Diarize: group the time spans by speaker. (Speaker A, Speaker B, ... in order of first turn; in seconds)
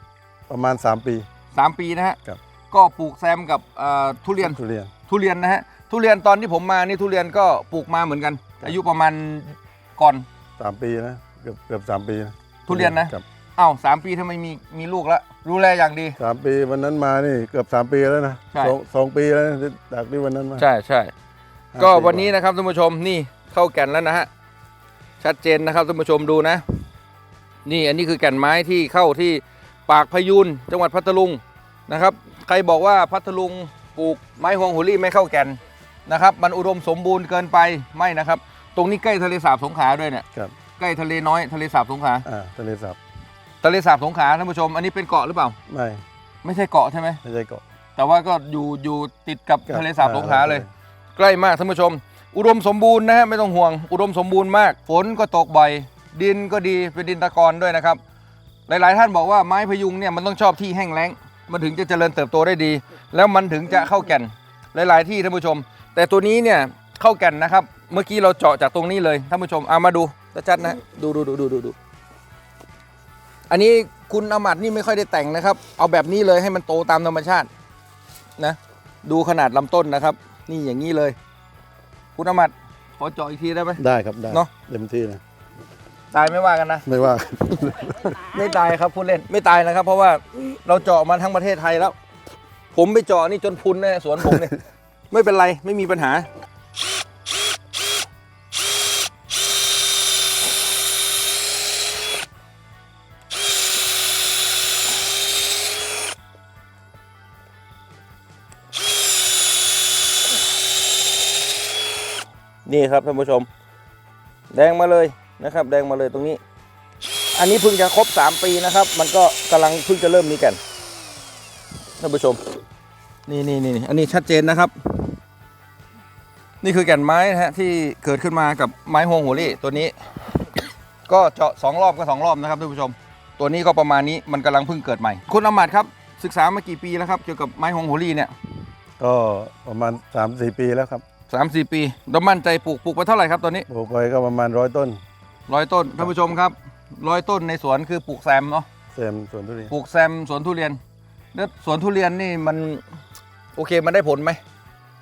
Speaker A: 0.5-1.2, 4.4-4.9, 10.6-13.2, 16.2-20.6, 21.7-22.3, 42.2-43.0, 45.7-46.0, 47.2-47.6, 49.7-50.7, 83.8-85.2, 86.8-88.2, 139.0-141.0, 143.7-145.0, 148.9-149.7
Speaker B: 1.5-2.2, 2.7-10.2, 12.7-16.2, 20.6-21.1, 21.8-24.3, 25.2-26.8, 27.6-40.2, 40.8-42.2, 43.6-45.5, 46.4-47.2, 48.0-50.6, 51.2-58.0, 58.7-71.8, 73.5-77.5, 78.4-81.2, 82.2-84.5, 86.1-86.8, 88.0-92.0, 92.7-94.6, 95.1-96.3, 112.7-113.5, 114.5-116.4, 117.3-120.6, 122.0-122.4, 123.3-125.2, 126.6-138.3, 141.3-143.7, 145.5-148.7, 149.7-150.8, 151.3-152.8, 153.6-154.4